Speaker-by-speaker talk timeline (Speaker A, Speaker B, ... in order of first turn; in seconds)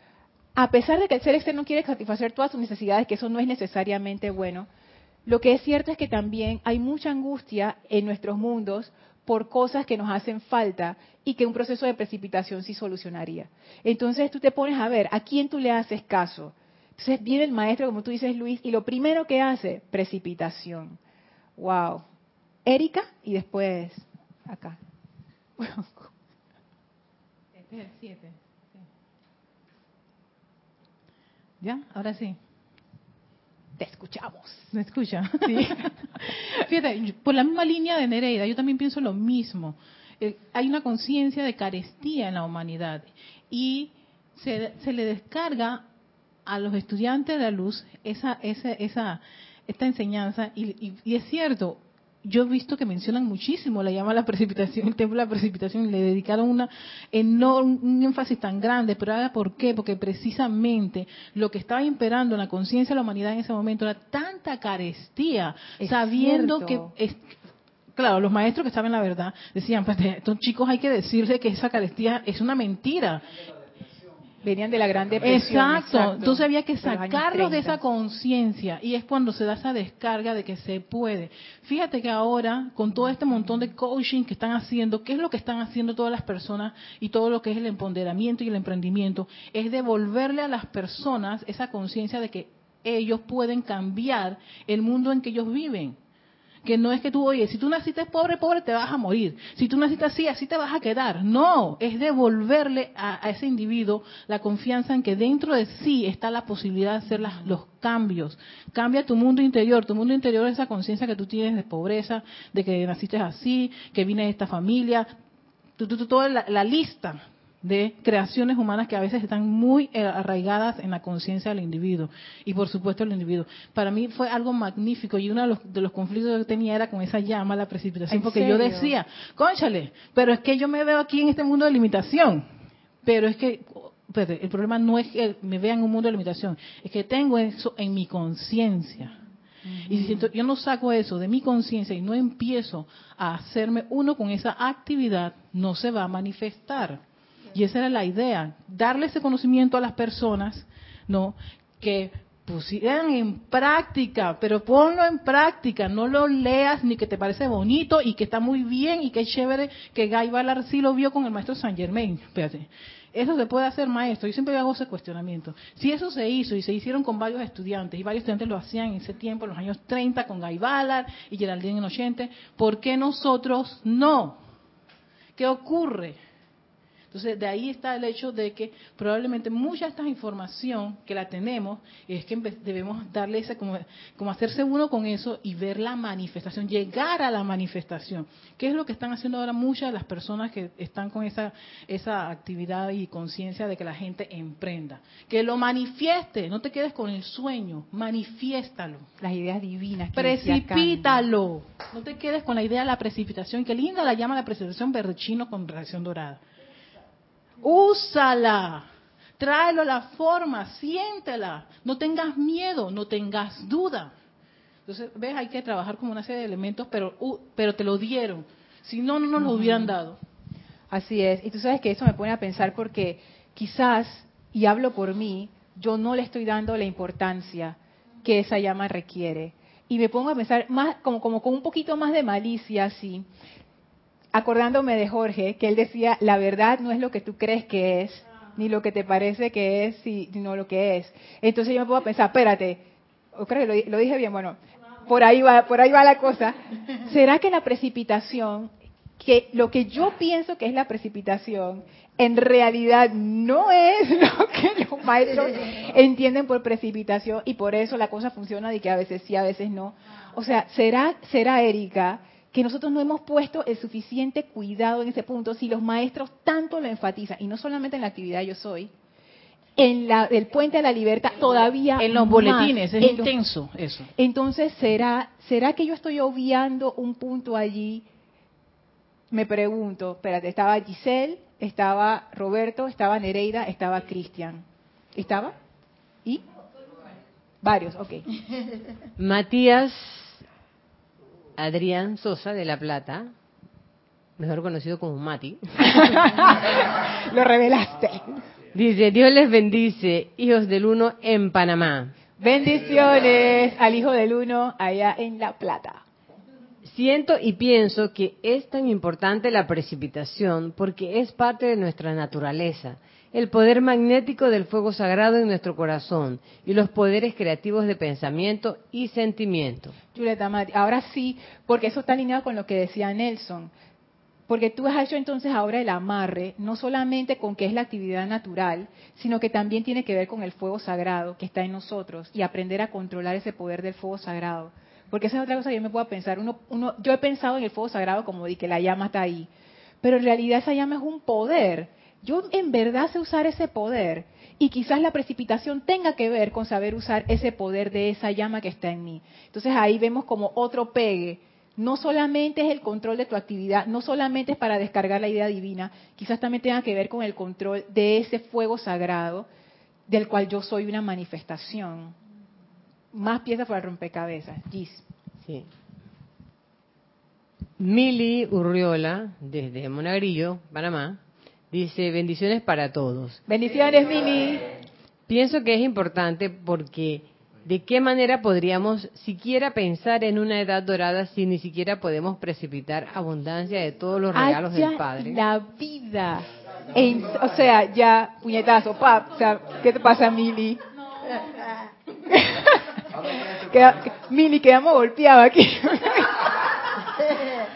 Speaker A: 0.6-4.7, 5.3-21.0, 21.6-22.0, 22.7-24.8, 25.6-26.1, 27.7-28.4, 33.8-34.7, 35.4-36.0, 65.8-66.9, 74.4-77.8, 107.2-107.6, 128.1-128.9, 139.7-140.3, 199.2-201.2, 219.4-219.9, 220.9-233.3, 234.3-268.9, 269.8-273.3, 274.2-278.1, 279.3-285.6, 287.6-288.2, 295.8-298.4, 302.4-306.0, 320.1-323.7, 324.5-339.5, 340.0-359.5, 360.1-362.1, 363.1-365.0, 373.5-374.6, 384.3-390.8, 392.3-397.3
Speaker B: 31.6-32.4, 34.7-45.8, 46.5-67.3, 68.0-73.2, 75.2-96.0, 96.6-115.1, 115.8-132.4, 133.0-139.2, 139.8-147.0, 147.5-174.4, 175.4-176.2, 177.1-199.1, 200.1-206.4, 207.6-208.9, 209.4-214.1, 214.9-220.2, 272.0-274.1
Speaker C: 289.2-290.4, 291.6-293.3, 294.4-296.2, 298.7-302.1, 306.8-320.0, 365.4-365.7, 367.8-371.2, 371.7-373.4, 375.3-385.4